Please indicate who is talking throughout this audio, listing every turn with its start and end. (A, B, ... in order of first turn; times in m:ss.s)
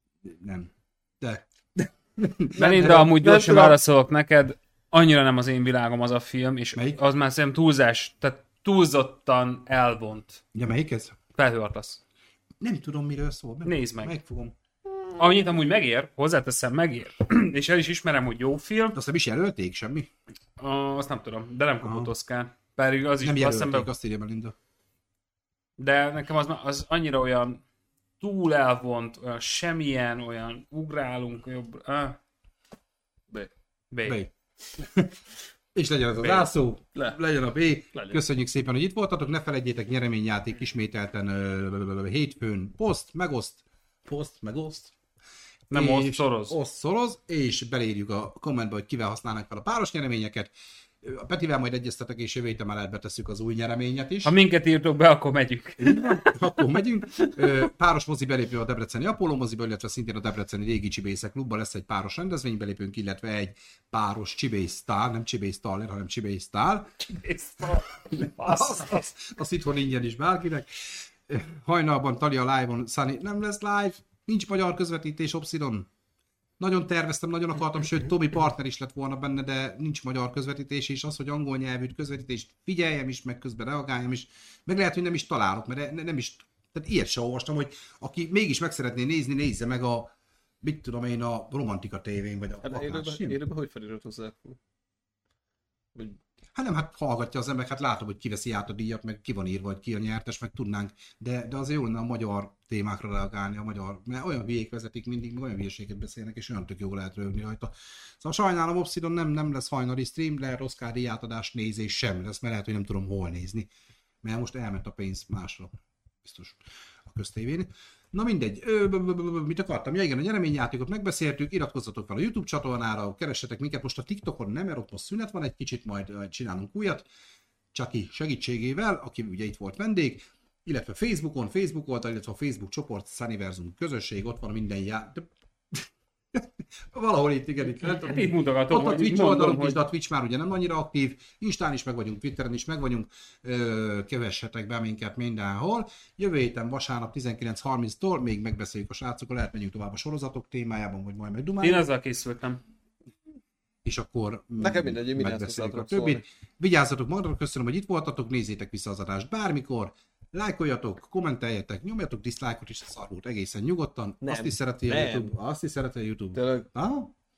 0:00.2-0:03.3 A
0:02.5-0:10.4 B
0:02.8-0:03.8 C
0:06.7-0:07.0 A
0:10.5-0:11.2 A
0:11.3-0:12.0 B
0:12.6-0:14.5 A
0:13.6-0:14.1 B
0:15.1-0:19.0 B
0:18.9-0:20.1 A
0:20.6-0:23.9 B
0:21.8-0:22.1 A
0:23.2-0:24.5 A
0:25.8-0:27.6 B
0:28.2-0:32.2 B
0:33.9-0:34.2 B
0:34.0-0:35.2 A
0:35.7-0:44.9 A
0:36.2-0:36.5 B
0:45.7-0:46.5 B
0:45.7-0:50.5 A
0:51.0-0:54.3 A
0:54.2-0:57.5 B
0:55.8-1:07.1 A
1:07.1-1:09.0 B
1:08.1-1:15.9 A
1:16.6-1:33.4 A
1:32.6-1:34.6 C
1:36.5-1:53.7 A
1:54.2-2:07.1 A
2:07.7-2:31.8 A
2:17.8-2:19.8 B
2:31.6-2:32.6 B
2:33.8-2:47.1 A
2:34.6-2:36.2 C
2:44.2-2:45.3 C
2:46.3-2:46.7 C